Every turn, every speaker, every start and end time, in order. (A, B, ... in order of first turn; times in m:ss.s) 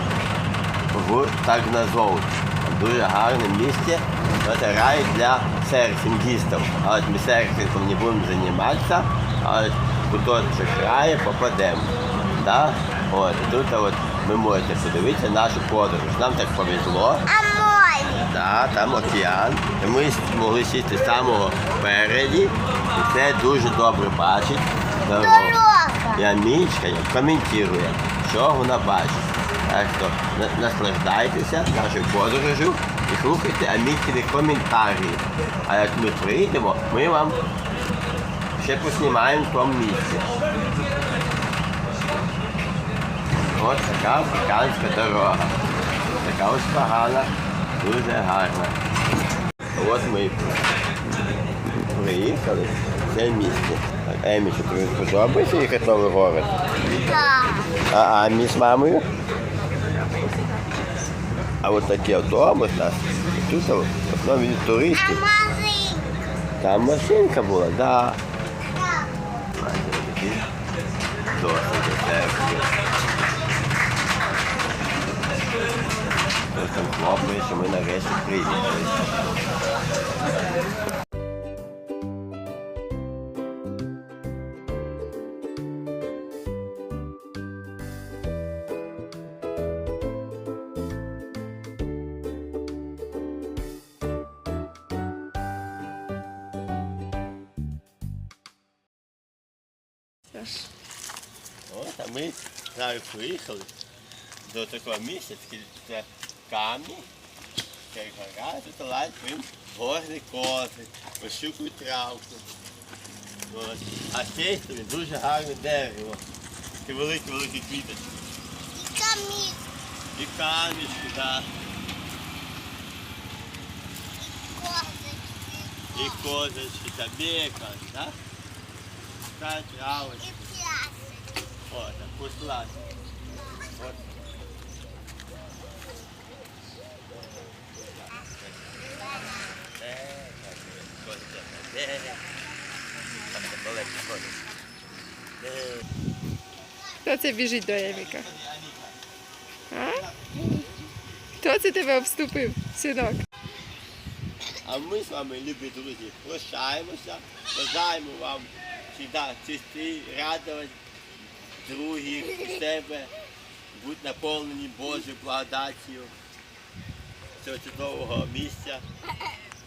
0:00.9-0:17.3 A
0:17.3-0:18.2 B
0:18.2-0:37.4 A
0:25.2-0:26.2 B
0:38.6-0:40.3 A
0:43.6-0:45.6 A
0:46.2-0:48.8 A
0:49.8-0:50.5 A
0:51.8-0:56.5 A
0:57.0-0:57.7 B
0:57.9-0:59.1 A
1:01.6-1:05.2 A
1:05.1-1:06.1 B
1:06.6-1:08.2 A
1:08.7-1:09.2 B
1:09.5-1:10.5 A
1:11.3-1:12.7 A
1:16.5-1:19.0 A
1:40.3-1:40.7 C
1:41.7-1:43.7 A
1:44.4-1:47.1 A
1:47.9-1:52.5 A
1:53.5-1:56.2 A
1:56.8-1:58.1 A
1:58.7-1:59.7 B
2:00.2-2:01.5 A
2:04.2-2:06.2 B
2:05.9-2:08.2 A
2:09.3-2:10.5 A
2:10.4-2:11.3 B
2:11.7-2:12.8 A
2:13.7-2:14.0 A
2:18.2-2:18.9 A
2:19.7-2:22.3 A
2:23.3-2:24.4 A
2:25.4-2:25.8 A
2:27.0-2:28.3 C
2:27.8-2:29.0 A
2:29.7-2:30.1 C
2:29.9-2:30.7 A
2:31.4-2:33.2 C
2:34.6-2:40.8 A
2:41.6-2:43.1 A
2:43.7-2:46.1 A
2:47.4-2:48.8 A